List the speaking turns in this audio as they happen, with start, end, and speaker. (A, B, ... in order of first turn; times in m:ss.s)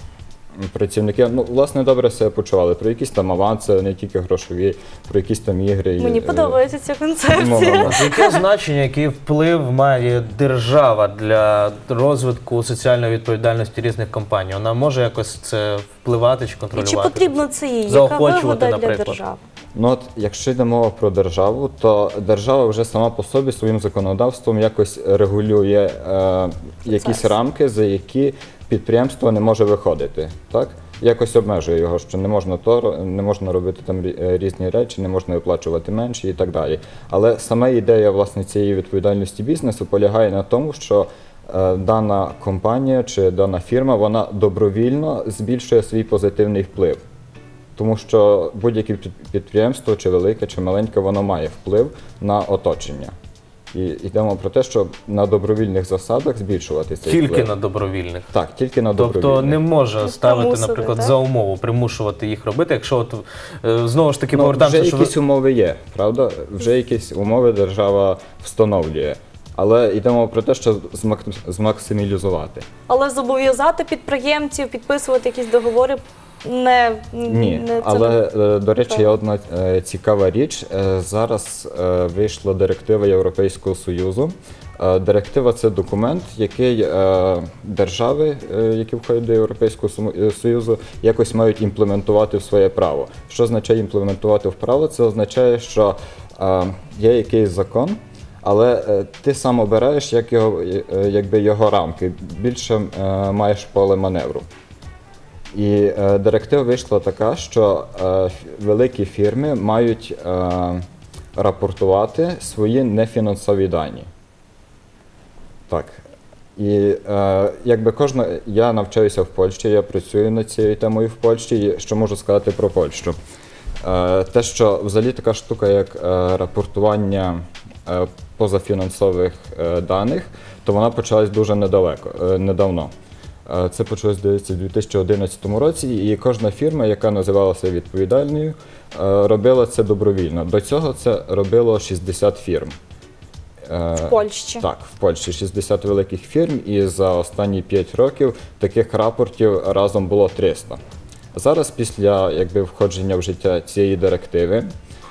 0:00.6-0:06.6 A
0:06.0-0:08.4 B
0:07.3-0:08.0 A
0:07.8-0:17.4 C
0:16.8-0:19.4 B
0:17.9-0:19.2 C
0:19.7-0:47.0 A
0:26.9-0:27.3 B
0:47.8-0:53.1 A
0:53.7-0:57.5 A
0:57.1-0:58.3 C
0:58.3-0:59.6 A
0:59.0-1:05.1 C
1:00.0-1:01.1 B
1:04.3-1:12.7 A
1:12.9-1:18.2 B
1:17.3-1:44.5 A
1:18.8-1:19.1 B
1:45.5-1:50.8 A
1:51.4-1:54.1 A
1:55.7-1:56.0 A
1:56.6-2:03.2 A
2:03.8-2:12.9 A
2:13.5-2:22.8 A
2:23.7-2:30.8 A
2:24.0-2:24.6 B
2:31.3-2:34.7 A